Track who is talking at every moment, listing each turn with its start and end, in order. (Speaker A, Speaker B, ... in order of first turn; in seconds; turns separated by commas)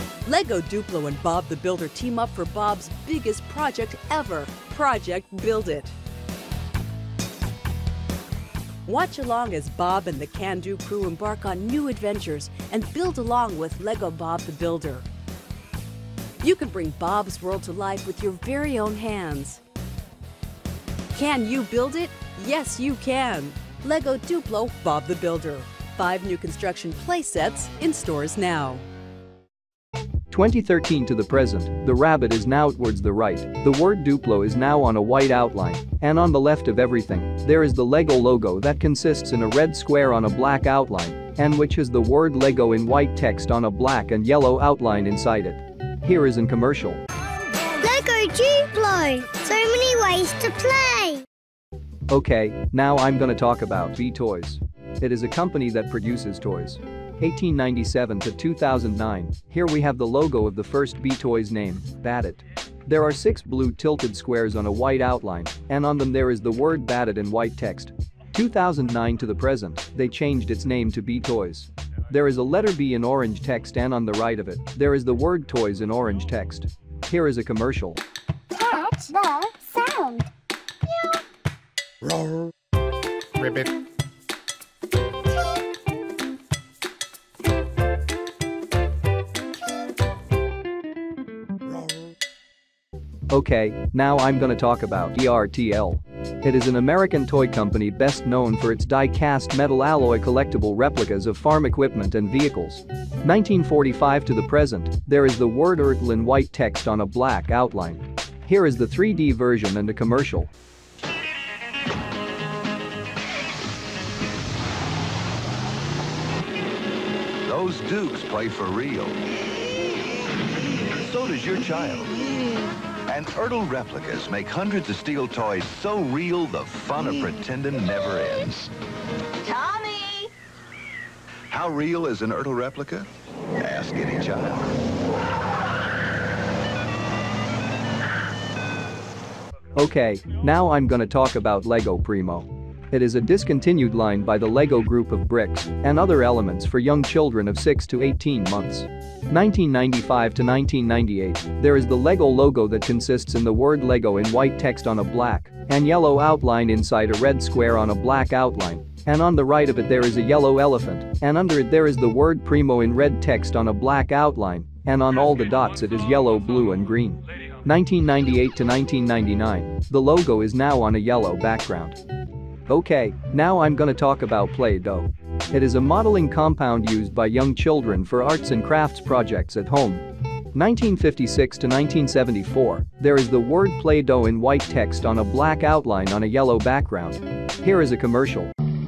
Speaker A: 0.3-5.9, Speaker A: 8.9-15.0, Speaker A: 16.5-19.6, Speaker A: 21.2-28.8, Speaker B: 30.3-47.0, Speaker C: 47.8-51.2, Speaker B: 52.1-78.0, Speaker C: 78.5-80.3, Speaker B: 93.3-110.5, Speaker D: 117.5-119.2, Speaker D: 121.0-122.1, Speaker D: 123.1-128.7, Speaker D: 131.5-134.6, Speaker B: 139.8-172.0, Speaker B: 172.7-180.0, Speaker B: 180.5-188.5